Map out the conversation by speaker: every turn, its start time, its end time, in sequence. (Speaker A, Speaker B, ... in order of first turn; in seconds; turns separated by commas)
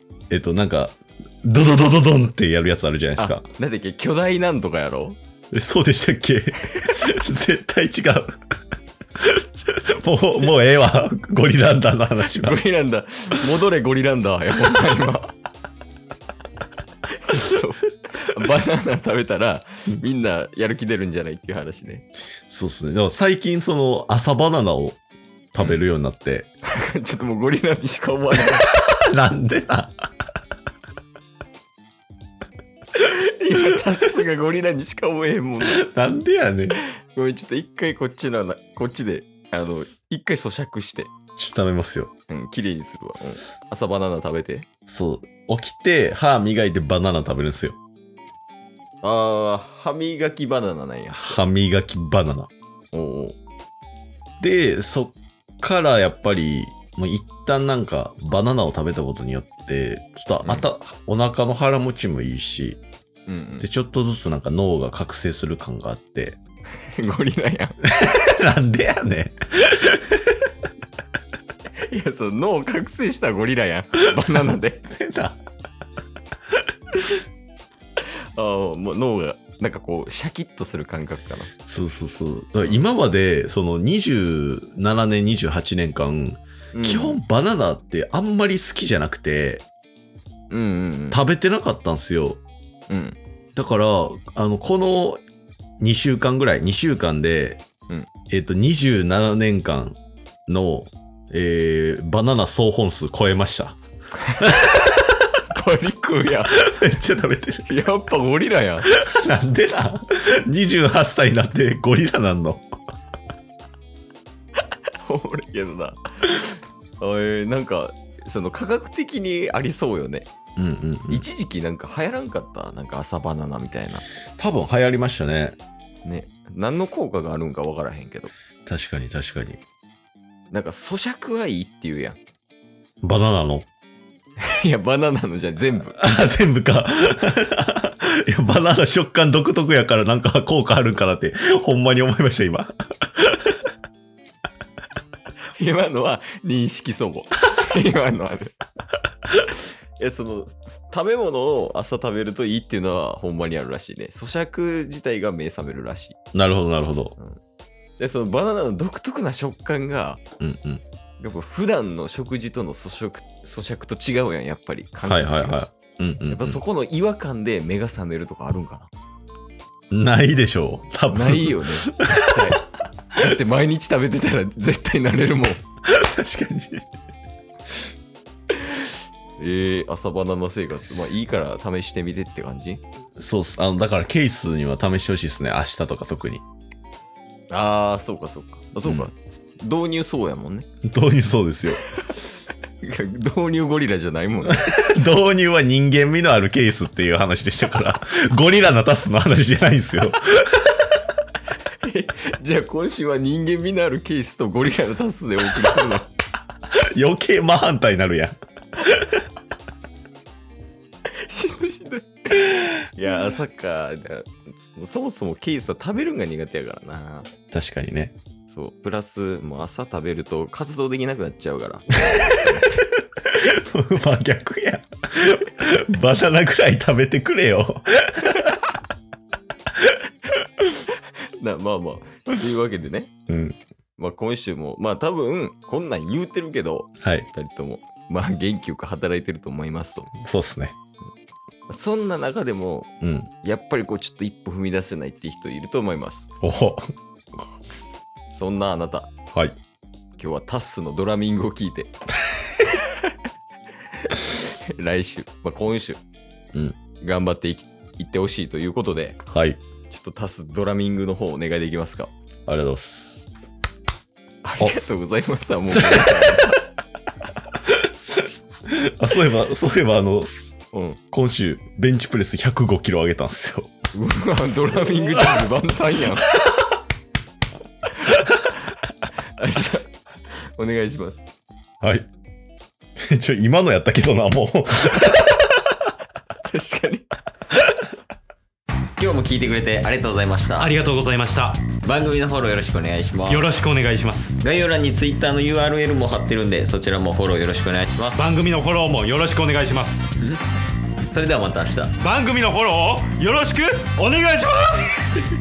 Speaker A: 0.3-3.5, Speaker B: 3.2-5.2, Speaker A: 5.5-8.4, Speaker A: 9.2-12.6, Speaker B: 12.2-15.3, Speaker B: 17.1-22.0, Speaker A: 22.5-25.0, Speaker A: 25.5-26.5, Speaker B: 26.6-28.7, Speaker A: 28.8-29.9, Speaker B: 32.9-35.9, Speaker A: 35.7-36.8, Speaker B: 37.1-41.1, Speaker A: 41.4-42.1, Speaker B: 42.3-44.7, Speaker A: 44.9-47.8, Speaker B: 49.0-51.4, Speaker A: 51.1-52.5, Speaker B: 52.9-53.4, Speaker A: 54.4-62.8, Speaker B: 63.3-63.7, Speaker A: 63.6-66.4, Speaker B: 67.0-67.8, Speaker A: 67.8-70.4, Speaker B: 71.9-74.9, Speaker A: 74.9-75.4, Speaker B: 78.0-81.5, Speaker A: 81.7-89.6, Speaker B: 86.7-87.2, Speaker B: 90.5-91.2, Speaker A: 91.1-92.4, Speaker B: 92.9-93.2, Speaker A: 93.5-95.2, Speaker A: 95.8-97.6, Speaker A: 98.3-103.8, Speaker A: 104.4-104.8, Speaker B: 105.5-106.6, Speaker A: 106.5-107.7, Speaker B: 107.7-108.9, Speaker A: 108.9-112.6, Speaker B: 115.0-120.3, Speaker A: 120.6-121.2, Speaker B: 121.1-124.0, Speaker A: 124.4-125.6, Speaker B: 126.0-128.3, Speaker A: 128.7-129.6, Speaker B: 130.5-132.2, Speaker A: 133.0-133.7, Speaker B: 134.4-136.0, Speaker A: 136.0-143.7, Speaker B: 145.6-148.5, Speaker B: 150.0-156.2, Speaker A: 156.3-157.1, Speaker B: 158.0-160.2, Speaker A: 160.4-160.8, Speaker B: 161.2-165.6, Speaker A: 165.0-166.6, Speaker B: 166.3-168.9, Speaker A: 169.9-172.4, Speaker B: 171.1-172.6, Speaker B: 173.1-175.6, Speaker A: 175.8-176.8, Speaker B: 179.4-182.8, Speaker A: 183.2-186.4, Speaker B: 187.5-190.7, Speaker A: 190.8-191.8, Speaker B: 192.8-194.8, Speaker A: 194.5-200.9, Speaker B: 201.8-206.1, Speaker A: 206.7-209.2, Speaker B: 211.1-217.3, Speaker A: 217.5-218.1, Speaker B: 218.5-222.8, Speaker A: 223.2-228.5, Speaker B: 231.4-233.1, Speaker A: 233.3-233.6, Speaker B: 234.0-240.1, Speaker A: 240.2-240.7, Speaker B: 241.7-242.9, Speaker A: 243.0-243.3, Speaker B: 243.4-246.3, Speaker A: 246.4-246.9, Speaker B: 248.3-249.1, Speaker B: 250.2-251.9, Speaker B: 254.0-256.0, Speaker B: 257.0-259.2, Speaker A: 259.3-259.6, Speaker B: 259.9-262.1, Speaker A: 262.5-263.2, Speaker B: 264.4-266.6, Speaker A: 265.7-266.4, Speaker A: 268.6-270.3, Speaker B: 270.7-271.0, Speaker A: 271.1-273.7, Speaker B: 273.9-276.4, Speaker B: 278.0-278.6, Speaker B: 279.4-279.9, Speaker B: 280.6-281.2, Speaker A: 281.8-282.1, Speaker A: 283.0-285.6, Speaker B: 286.4-287.1, Speaker B: 289.0-290.7, Speaker C: 290.6-291.7, Speaker B: 291.8-293.5, Speaker C: 293.3-294.4, Speaker B: 294.4-298.2, Speaker C: 298.1-300.1, Speaker B: 301.1-302.0, Speaker C: 302.0-305.0